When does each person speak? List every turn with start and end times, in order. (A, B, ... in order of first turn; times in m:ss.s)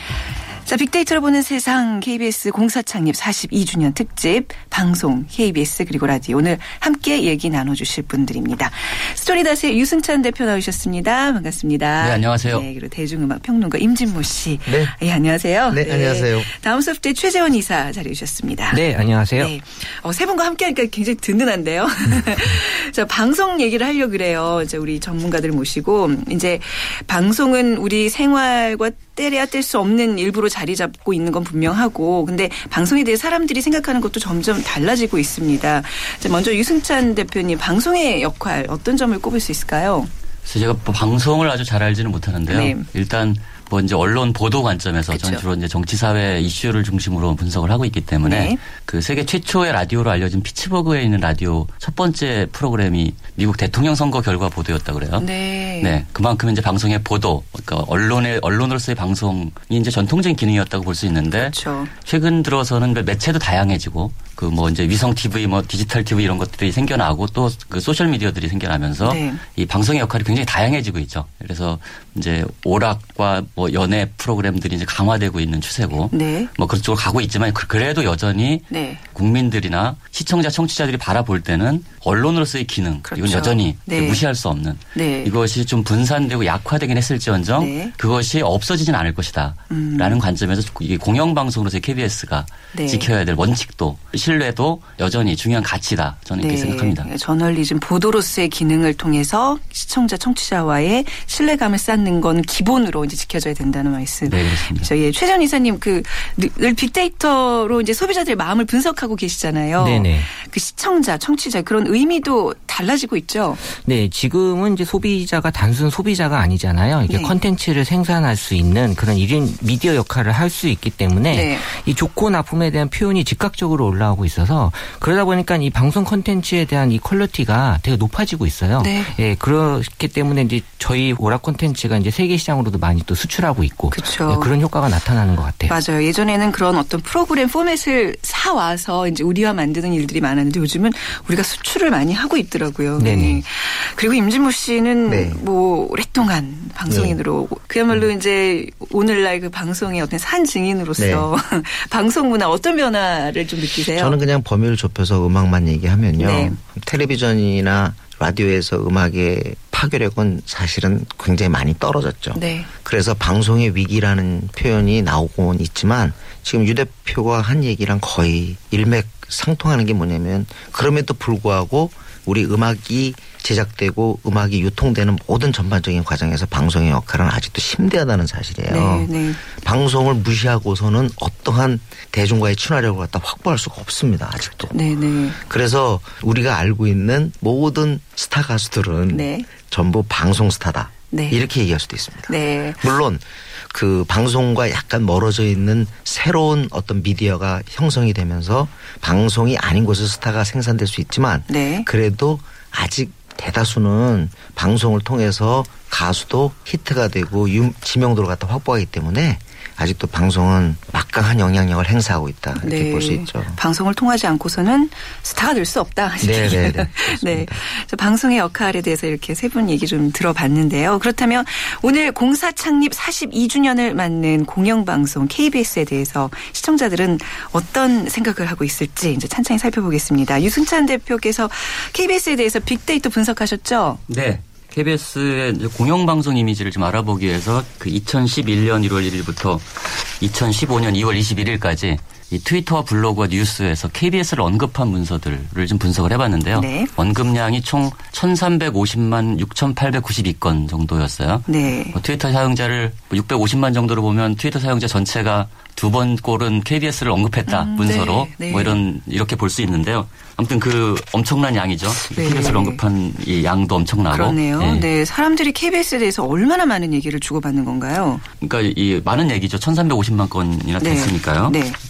0:00.7-0:18.8 A
0:12.0-0:12.6 B
0:14.7-0:15.0 C
0:15.7-0:16.5 C
0:18.7-0:19.5 D
0:19.4-0:40.1 A
0:40.4-0:55.3 B
0:42.5-0:42.9 A
0:45.1-0:45.4 A
0:48.2-0:48.6 A
0:55.2-0:56.0 A
0:55.8-1:37.1 B
1:01.4-1:01.9 A
1:09.0-1:09.4 A
1:16.1-1:16.5 A
1:18.7-1:19.0 A
1:23.1-1:24.2 A
1:24.9-1:25.3 A
1:27.6-1:27.9 A
1:29.7-1:30.2 A
1:32.7-1:33.1 A
1:36.4-1:53.6 A
1:44.3-1:44.9 B
1:49.8-1:50.3 D
1:53.6-2:15.8 D
1:57.1-1:57.3 A
2:01.3-2:01.6 A
2:08.8-2:09.1 A
2:13.9-2:14.5 A
2:15.7-2:34.2 A
2:23.0-2:23.4 D
2:25.1-2:25.4 C
2:26.9-2:27.2 C
2:31.0-2:31.3 C
2:33.9-3:04.8 C
2:36.2-2:36.6 A
2:42.3-2:42.7 A
2:58.7-2:59.4 A
3:04.7-3:05.4 A
3:05.4-3:33.6 C
3:09.1-3:09.5 A
3:11.1-3:11.4 A
3:12.3-3:12.8 A
3:21.5-3:21.9 A
3:32.6-3:54.0 A
3:36.2-3:37.6 C
3:54.1-4:24.9 B
4:06.5-4:06.9 A
4:11.5-4:12.0 A
4:17.5-4:18.8 A
4:22.1-4:22.8 A
4:24.1-4:28.2 A
4:28.4-4:31.6 B
4:30.8-4:31.8 A